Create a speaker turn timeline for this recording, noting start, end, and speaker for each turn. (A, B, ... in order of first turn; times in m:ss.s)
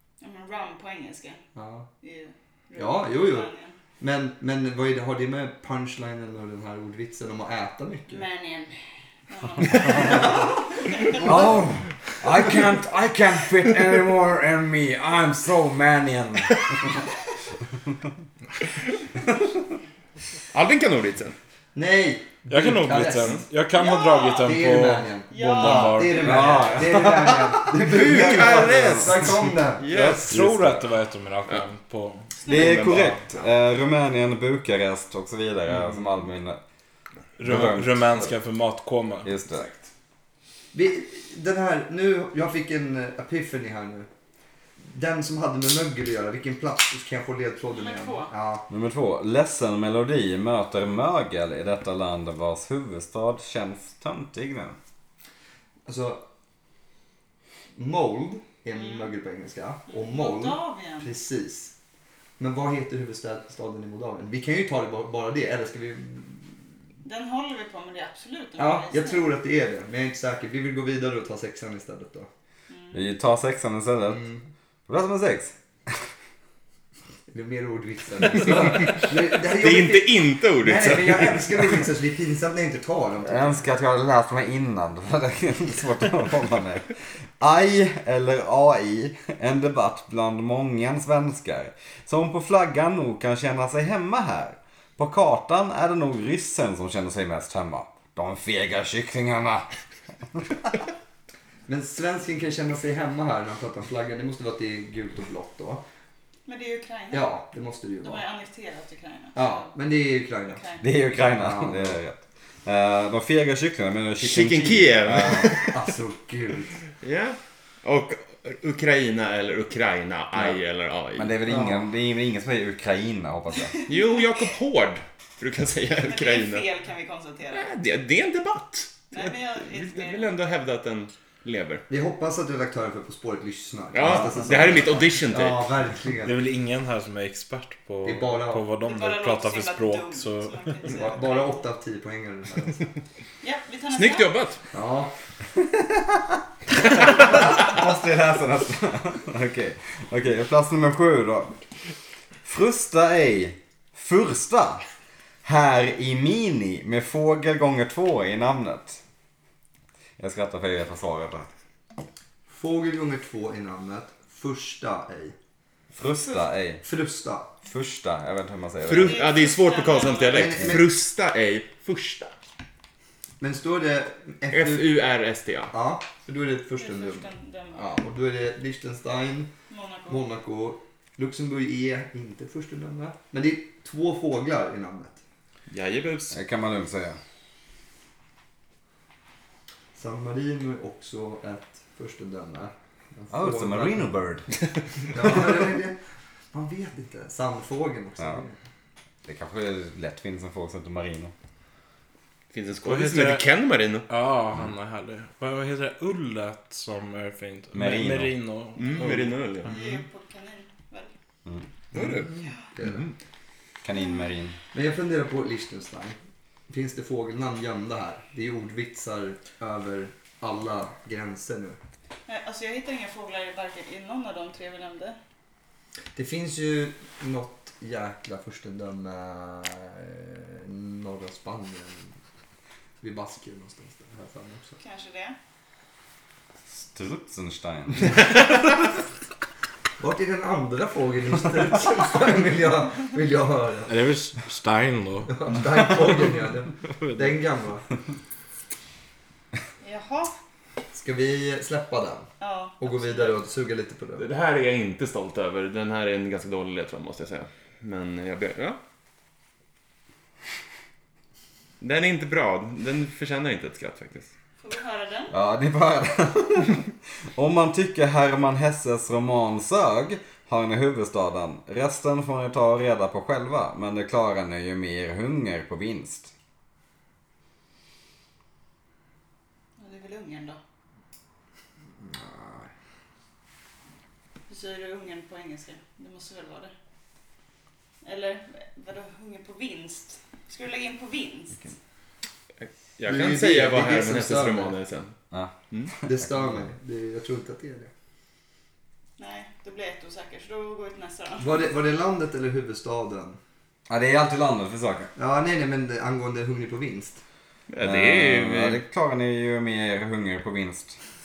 0:00.2-0:01.4 A
0:01.5-0:01.9 B
0:02.0-0:03.8 A
0:02.8-0:08.2 B
0:08.1-0:11.5 A
0:09.8-0:11.2 B
0:11.2-0:16.6 C
0:16.5-0:16.8 D
0:20.5-0:21.3 D
0:21.7-0:23.4 B
0:22.5-0:26.6 E
0:23.2-0:23.4 D
0:23.7-0:24.6 A
0:24.4-0:30.1 B
0:25.3-0:27.1 A
0:26.2-0:29.2 C
0:27.8-0:30.4 D
0:29.9-0:30.8 C
0:30.3-0:32.3 E
0:32.4-0:32.8 A
0:32.4-0:33.2 D
0:32.5-0:36.6 C
0:37.4-0:39.3 E
0:37.4-0:38.3 C
0:39.2-0:39.8 C
0:40.7-0:44.1 B
0:44.8-0:48.7 B
0:47.7-0:48.3 A
0:48.7-0:54.8 C
0:55.8-0:56.2 B
0:57.8-1:01.7 B
0:58.8-0:59.1 A
0:59.9-1:01.1 A
1:02.4-1:06.5 B
1:07.0-1:09.3 A
1:08.6-1:12.3 B
1:12.7-1:13.1 A
1:12.9-1:14.2 C
1:14.1-1:14.4 B
1:14.9-1:15.5 C
1:17.3-1:23.6 B
1:18.8-1:21.7 D
1:23.2-1:39.7 C
1:41.7-1:45.8 B
1:46.4-1:47.3 A
1:47.1-1:48.2 B
1:48.0-1:49.7 A
1:49.3-1:50.6 B
1:50.5-1:50.8 A
1:50.8-1:55.6 C
1:51.2-1:52.0 B
1:54.2-1:55.8 D
1:55.5-1:56.8 B
1:57.0-2:01.4 D
2:01.1-2:03.8 C
2:01.4-2:01.9 B
2:03.8-2:06.7 D
2:03.9-2:04.4 A
2:06.0-2:07.7 A
2:07.5-2:11.8 D
2:09.1-2:10.3 A
2:11.9-2:16.4 B
2:13.9-2:15.7 D
2:16.2-2:20.6 E
2:18.0-2:18.6 B
2:18.8-2:21.5 A
2:20.8-2:22.8 B
2:23.4-2:24.3 A
2:23.9-2:24.6 D
2:24.7-2:25.1 B
2:27.1-2:31.6 C
2:32.4-2:34.8 C
2:35.4-2:39.0 C
2:40.2-2:41.5 C
2:42.5-2:45.3 B
2:45.9-2:46.8 C
2:46.8-2:47.5 B
2:47.6-2:49.2 C
2:48.8-2:52.3 D
2:48.9-2:50.6 A
2:50.3-2:51.0 B
2:53.4-2:55.0 B
2:54.5-2:55.7 D
2:55.7-2:59.5 B
2:56.8-2:57.9 A
2:59.7-3:00.2 A
3:00.1-3:05.2 B
3:05.7-3:06.4 D
3:06.3-3:07.2 C
3:09.9-3:14.1 B
3:13.3-3:14.5 C
3:15.1-3:16.0 B
3:16.5-3:18.6 B
3:18.2-3:18.4 C
3:19.2-3:21.3 C
3:22.5-3:24.1 D
3:22.8-3:23.4 E
3:24.1-3:29.3 E
3:27.7-3:28.3 C
3:28.8-3:29.7 D
3:29.6-3:31.1 A
3:29.7-3:30.0 B
3:31.9-3:33.1 D
3:31.9-3:33.1 B
3:33.8-3:34.6 C
3:33.9-3:34.3 A
3:34.7-3:36.2 B
3:36.7-3:41.8 B
3:42.3-3:45.2 A
3:46.1-3:52.1 B
3:53.0-3:54.8 B
3:54.8-3:55.4 A
3:56.7-3:58.2 C
4:00.0-4:03.9 B
4:03.9-4:05.9 E
4:05.3-4:07.8 B
4:07.0-4:07.3 E
4:09.8-4:10.3 A
4:10.9-4:14.2 B
4:12.4-4:13.4 A
4:14.2-4:18.8 D
4:21.8-4:24.3 D
4:24.6-4:25.3 A
4:25.3-4:36.3 C
4:39.8-4:40.6 A
4:42.0-4:42.7 B
4:44.5-4:46.7 A
4:48.0-4:51.7 A
4:52.6-4:55.1 D
4:53.1-4:54.8 B
4:56.0-4:57.9 B
4:56.2-4:56.5 C
4:59.2-5:01.5 A
5:01.4-5:03.4 B
5:03.9-5:05.1 C
5:05.2-5:07.2 B
5:07.7-5:08.8 D
5:07.8-5:11.0 C